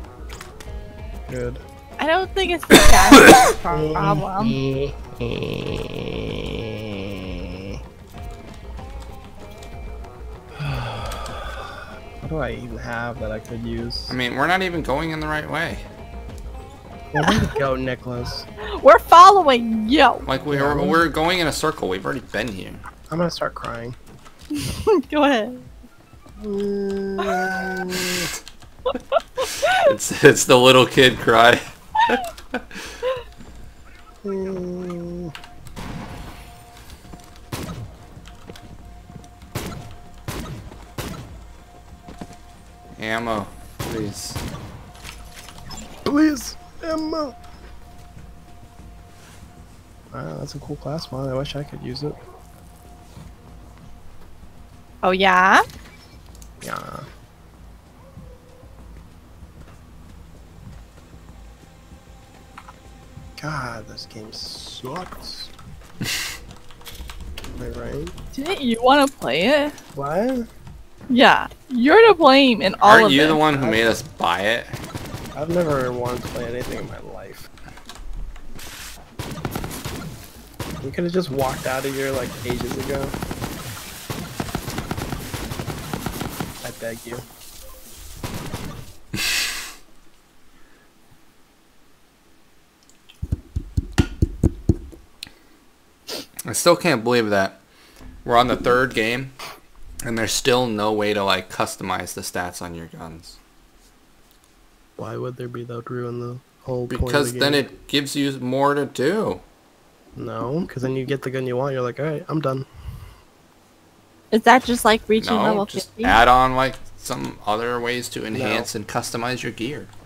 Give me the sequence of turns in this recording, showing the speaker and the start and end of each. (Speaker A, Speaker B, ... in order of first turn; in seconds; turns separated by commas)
Speaker A: 1.3-1.6, Speaker B: 2.0-4.6, Speaker A: 3.7-6.0, Speaker A: 10.6-11.6, Speaker A: 12.2-14.2, Speaker C: 14.1-15.8, Speaker A: 17.1-18.5, Speaker B: 17.2-17.5, Speaker B: 18.8-20.2, Speaker C: 20.2-22.8, Speaker A: 20.5-21.1, Speaker A: 23.1-23.9, Speaker B: 24.5-25.7, Speaker A: 26.4-28.2, Speaker B: 28.9-29.8, Speaker C: 29.7-32.8, Speaker A: 34.2-35.3, Speaker C: 43.0-44.4, Speaker A: 46.0-47.4, Speaker A: 50.1-52.2, Speaker B: 55.0-55.6, Speaker A: 56.6-57.1, Speaker A: 63.4-65.5, Speaker A: 67.5-68.1, Speaker B: 68.3-69.7, Speaker A: 69.9-70.5, Speaker B: 71.1-73.4, Speaker C: 72.8-74.8, Speaker A: 73.5-74.0, Speaker A: 75.3-77.5, Speaker A: 80.8-83.1, Speaker A: 86.6-87.2, Speaker C: 96.4-97.6, Speaker C: 98.2-99.3, Speaker C: 100.0-103.4, Speaker A: 105.0-107.7, Speaker C: 106.9-109.4, Speaker A: 110.2-112.7, Speaker B: 114.3-116.2, Speaker C: 115.2-119.9, Speaker A: 118.3-118.7